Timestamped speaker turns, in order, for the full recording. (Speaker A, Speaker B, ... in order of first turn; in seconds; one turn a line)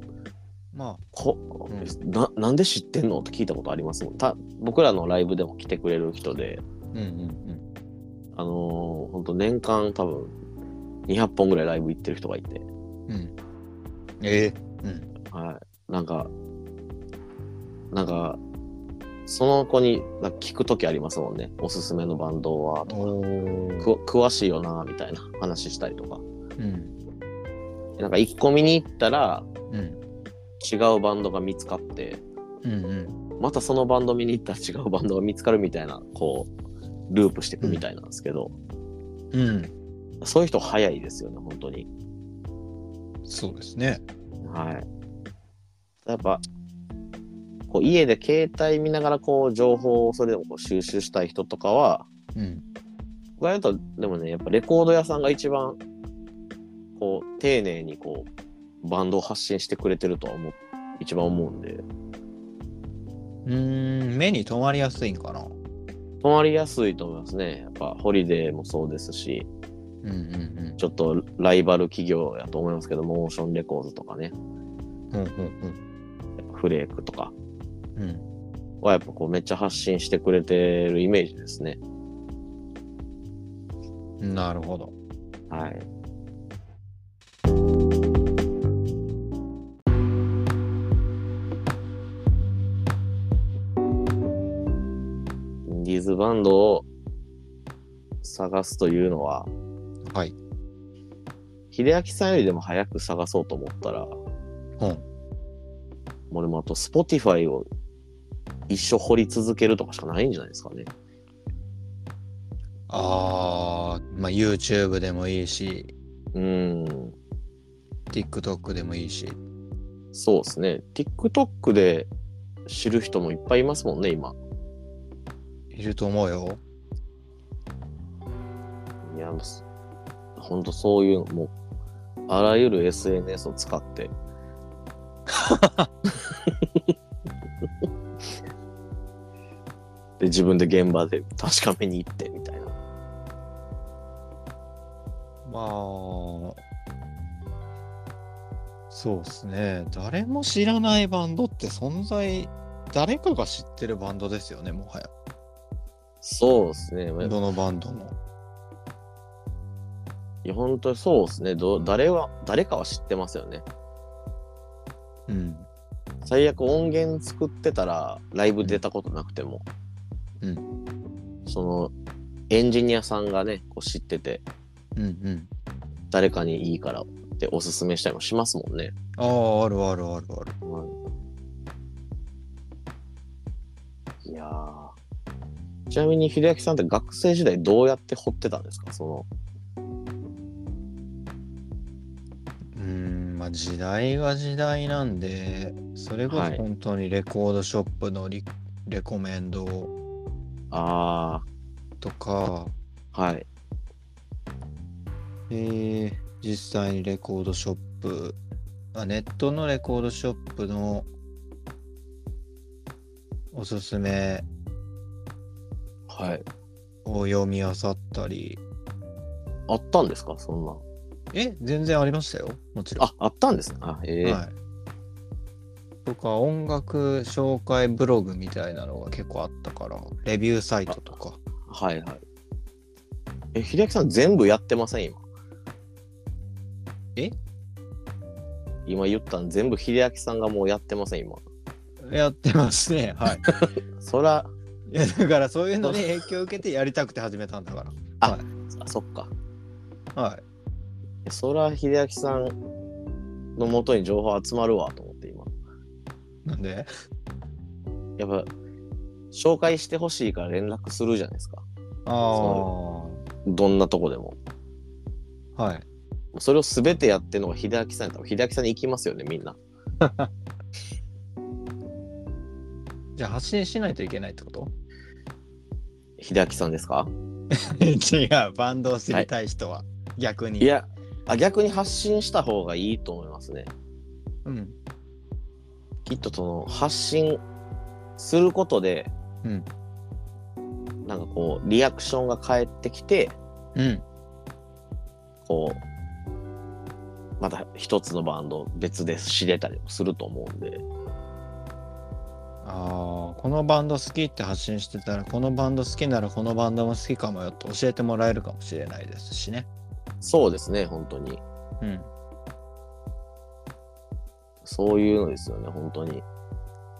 Speaker A: 0.7-1.0
Speaker B: 1.1-6.6
Speaker A: 1.7-1.9
Speaker A: 6.9-7.7
Speaker B: 8.3-10.3
Speaker B: 11.1-12.7
Speaker A: 13.1-13.3
Speaker A: 14.2-15.1
Speaker B: 15.3-16.3
Speaker B: 17.9-18.4
Speaker B: 19.3-23.0
Speaker A: 22.9-23.9
Speaker B: 23.8-26.2
Speaker A: 26.6-26.9
Speaker B: 28.0-29.5
Speaker A: 29.7-30.0
Speaker B: 30.6-32.2
Speaker A: 32.6-33.2
Speaker B: 33.4-36.5
Speaker B: 37.1-38.5
Speaker A: 39.3-39.7
Speaker B: 40.2-41.9
Speaker A: 43.3-44.0
Speaker B: 44.4-44.9
Speaker B: 46.0-46.4
Speaker B: 47.7-52.1
Speaker A: 52.4-52.6
Speaker B: 53.4-55.8
Speaker B: 57.0-58.3
Speaker B: 58.8-61.8
Speaker A: 63.5-65.5
Speaker B: 66.2-69.5
Speaker A: 70.0-70.8
Speaker B: 70.8-74.3
Speaker A: 75.1-75.8
Speaker B: 76.4-77.3
Speaker A: 78.0-78.2
Speaker B: 78.8-81.8
Speaker A: 84.2-84.9
Speaker B: 85.5-85.9
Speaker B: 95.7-96.8
Speaker B: 98.2-99.5
Speaker A: 100.0-100.3
Speaker B: 101.7-104.2
Speaker A: 104.8-105.0
Speaker B: 106.3-107.7
Speaker B: 108.7-110.9
Speaker A: 112.9-115.9
Speaker B: 116.3-117.2
Speaker A: 118.1-119.4
Speaker B: 120.1-122.1
Speaker B: 122.7-124.3
Speaker A: 125.7-126.6
Speaker B: 129.0-129.6
Speaker B: 130.4-131.5
Speaker B: 132.3-134.1
Speaker A: 135.3-135.9
Speaker B: 136.3-136.8
Speaker B: 140.2-142.7
Speaker A: 145.4-146.6
Speaker A: 148.9-155.1
Speaker B: 156.2-157.3
Speaker A: 157.2-158.2
Speaker B: 160.4-163.7
Speaker A: 165.3-165.7
Speaker B: 166.2-169.6
Speaker B: 171.4-171.9
Speaker B: 172.5-174.4
Speaker A: 174.9-175.5
Speaker B: 176.1-178.9
Speaker A: 179.2-180.6
Speaker B: 180.6-180.9
Speaker B: 184.2-184.9
Speaker B: 185.9-189.3
Speaker A: 192.7-199.9
Speaker B: 196.3-196.6
Speaker B: 200.7-201.4
Speaker A: 202.0-202.7
Speaker B: 203.1-203.5
Speaker A: 205.5-208.4
Speaker A: 208.9-211.1
Speaker A: 213.5-214.4
Speaker B: 216.1-216.4
Speaker A: 217.0-218.6
Speaker B: 219.7-220.8
Speaker A: 221.3-223.1
Speaker B: 223.0-224.4
Speaker A: 224.2-224.5
Speaker A: 226.0-231.4
Speaker B: 231.7-232.2
Speaker B: 233.5-235.2
Speaker B: 238.8-241.4
Speaker A: 242.0-243.4
Speaker B: 243.4-244.5
Speaker A: 244.9-248.4
Speaker B: 248.2-249.3
Speaker A: 250.1-250.4
Speaker B: 251.2-252.6
Speaker B: 253.6-255.5
Speaker A: 256.4-256.9
Speaker B: 258.2-258.5
Speaker B: 259.3-261.6
Speaker A: 262.1-263.2
Speaker B: 262.3-262.7
Speaker B: 263.4-264.4
Speaker A: 265.6-265.9
Speaker B: 266.3-269.6
Speaker A: 270.0-270.3
Speaker A: 273.1-274.7
Speaker B: 276.2-277.1
Speaker A: 277.5-280.7
Speaker B: 280.6-283.7
Speaker A: 284.4-284.8
Speaker B: 286.0-287.4
Speaker B: 288.2-289.1
Speaker B: 291.0-293.4
Speaker A: 293.8-294.0
Speaker B: 295.4-295.8
Speaker B: 297.4-300.8
Speaker A: 302.6-309.7
Speaker B: 310.2-311.4
Speaker A: 311.8-312.1
Speaker B: 314.6-316.2